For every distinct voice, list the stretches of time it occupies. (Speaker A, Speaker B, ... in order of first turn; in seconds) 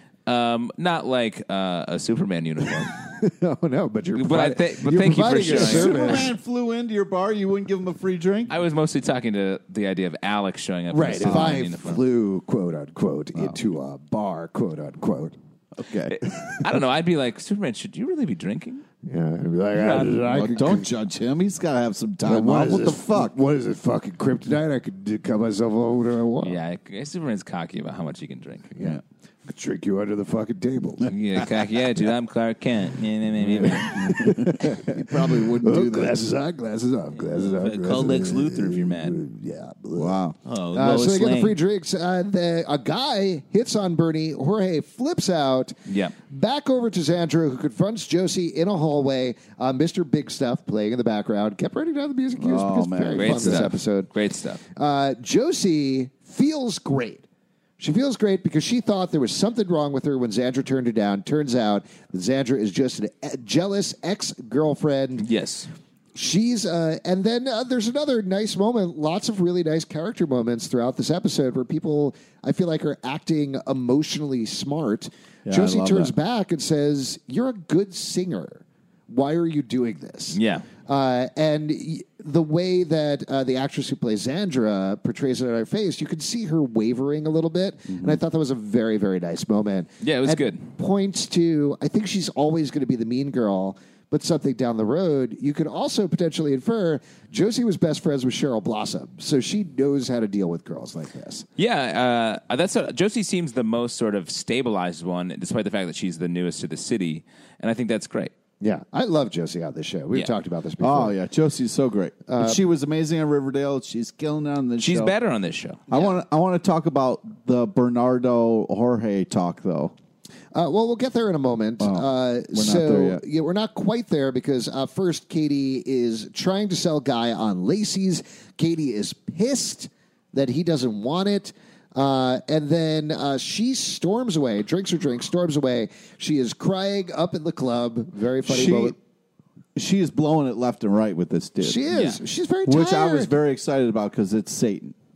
Speaker A: 0.2-2.9, 4.1-6.2, 8.5-12.0, 16.1-18.8, 19.8-20.2, 26.4-28.8, 31.1-34.2, 37.3-39.2, 40.4-41.6, 45.9-46.1, 53.2-54.6, 65.2-65.7, 80.3-80.7, 90.0-90.7, 101.6-108.3, 114.8-116.0, 141.9-142.2
Speaker B: 3.0-6.3, 10.9-15.3, 19.0-20.9, 22.2-26.6, 28.8-31.1, 33.6-40.2, 40.7-54.1, 54.7-57.2, 57.8-65.2, 66.1-101.5, 108.6-111.1, 112.3-112.6, 120.5-138.9, 141.6-143.3
Speaker C: 4.9-8.5, 11.2-11.6, 15.8-16.3, 20.2-23.4, 33.4-36.2, 40.0-40.4, 52.4-53.7, 75.5-76.1, 87.9-88.2, 110.8-115.1, 115.9-119.9, 121.8-123.2, 138.4-138.9, 139.7-141.8, 142.7-144.9